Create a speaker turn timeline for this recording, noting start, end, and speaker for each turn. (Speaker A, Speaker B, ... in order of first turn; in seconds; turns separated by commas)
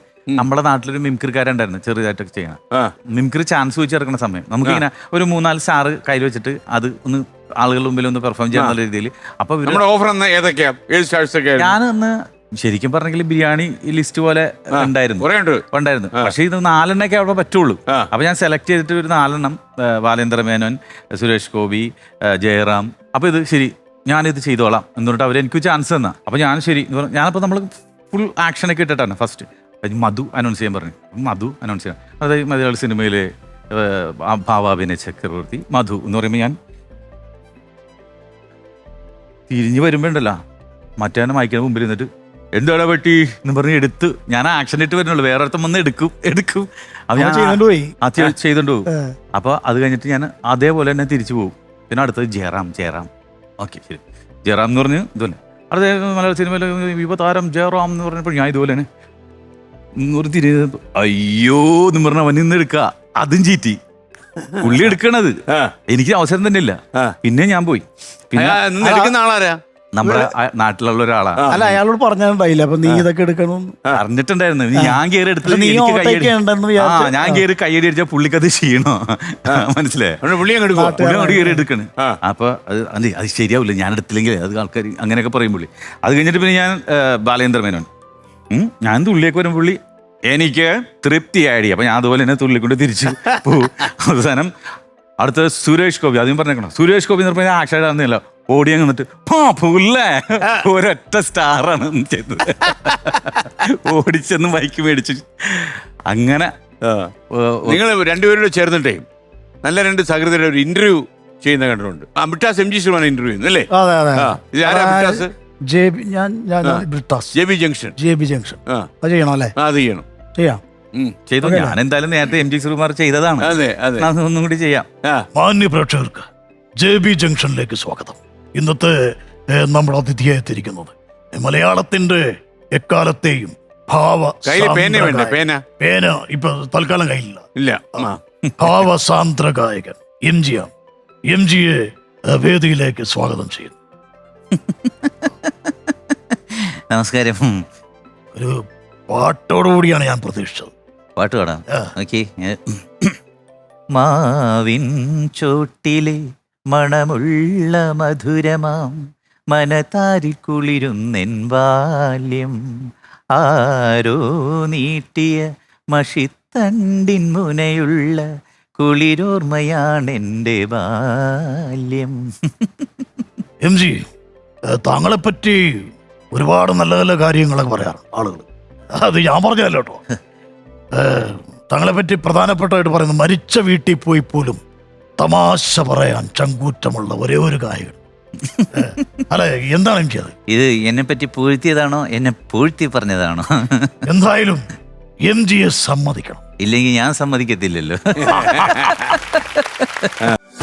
Speaker A: 0.4-2.6, Speaker A: 3.1-9.8, Speaker B: 9.7-11.8, Speaker A: 11.6-36.5, Speaker B: 14.7-15.6, Speaker A: 39.5-40.4, Speaker A: 41.0-53.1, Speaker C: 47.2-47.9, Speaker A: 53.6-58.9, Speaker A: 60.0-63.8, Speaker B: 64.5-64.9, Speaker A: 64.6-65.4, Speaker B: 65.5-65.7, Speaker A: 65.9-68.6, Speaker B: 68.4-70.3, Speaker C: 68.8-69.1, Speaker A: 70.0-71.6, Speaker B: 71.5-71.8, Speaker C: 71.5-73.8, Speaker A: 73.9-80.2, Speaker C: 74.8-77.4, Speaker B: 80.2-81.0, Speaker C: 80.8-81.6, Speaker A: 80.8-87.9, Speaker A: 88.5-94.5, Speaker A: 95.2-106.5, Speaker B: 106.8-107.1, Speaker A: 107.3-107.8, Speaker B: 107.7-109.0, Speaker B: 109.6-115.3, Speaker C: 113.7-117.3, Speaker B: 117.3-118.0, Speaker C: 118.0-119.5, Speaker B: 119.6-120.0, Speaker A: 121.3-124.9, Speaker C: 121.4-121.8, Speaker B: 123.4-124.1, Speaker D: 125.3-126.3, Speaker D: 126.8-129.0, Speaker D: 129.5-137.5, Speaker B: 134.4-135.6, Speaker B: 137.6-138.2, Speaker D: 138.0-140.7, Speaker D: 141.3-143.8, Speaker A: 144.7-145.9, Speaker A: 146.5-147.6, Speaker D: 149.1-150.7, Speaker A: 151.2-153.2, Speaker A: 153.9-156.2, Speaker A: 156.7-159.0, Speaker A: 159.5-162.6, Speaker A: 163.4-172.9, Speaker D: 173.6-174.1, Speaker D: 174.7-180.0, Speaker D: 180.9-184.6, Speaker D: 185.2-188.0, Speaker A: 188.5-189.0, Speaker D: 188.7-190.3, Speaker A: 190.5-194.0, Speaker D: 194.1-194.7, Speaker D: 195.2-196.4, Speaker A: 196.6-200.1, Speaker B: 198.3-199.0